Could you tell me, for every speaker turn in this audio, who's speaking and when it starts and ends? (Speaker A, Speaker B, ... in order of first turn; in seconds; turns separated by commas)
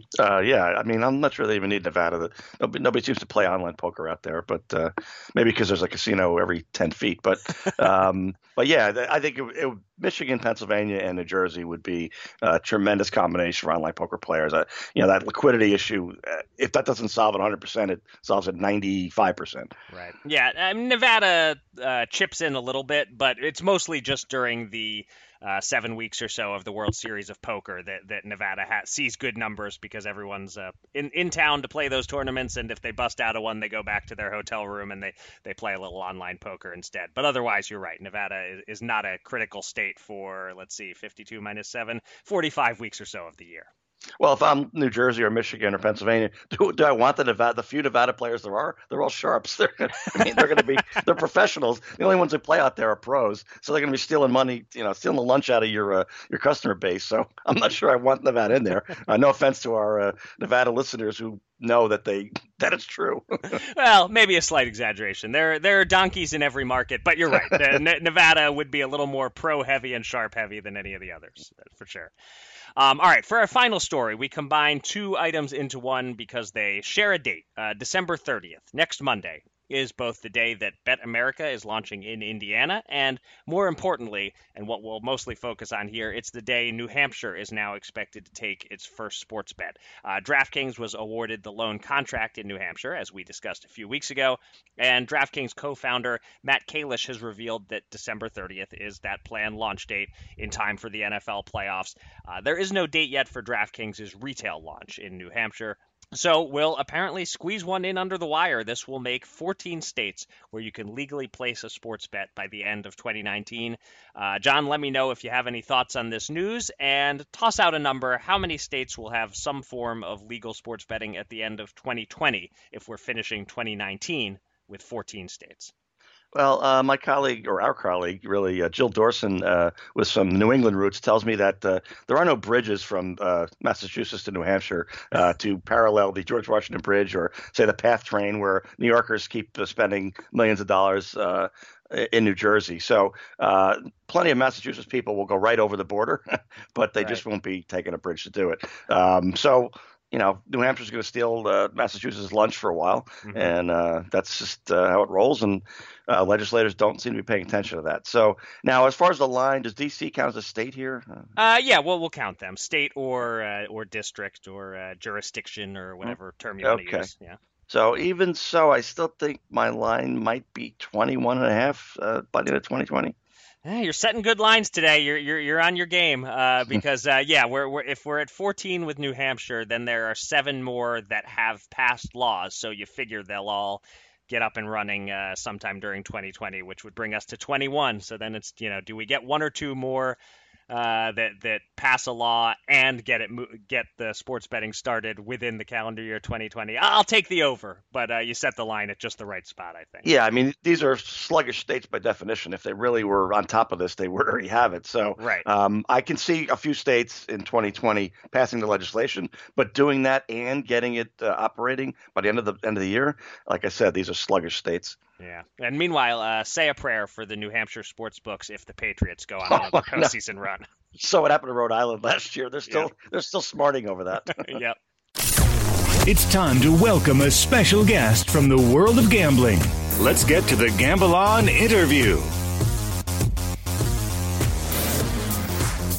Speaker A: 0.2-19.7, Speaker B: 19.9-43.7, Speaker A: 44.2-63.6, Speaker B: 63.5-72.1, Speaker B: 72.8-125.7, Speaker A: 126.3-161.3, Speaker B: 153.2-153.5, Speaker B: 161.4-167.4, Speaker A: 166.6-167.1, Speaker A: 167.7-173.2, Speaker B: 173.6-190.2, Speaker B: 190.7-200.1, Speaker A: 200.0-215.0, Speaker B: 205.2-205.5, Speaker B: 215.2-220.7, Speaker A: 219.5-220.1, Speaker A: 220.9-224.6, Speaker B: 224.3-224.8, Speaker C: 226.1-232.3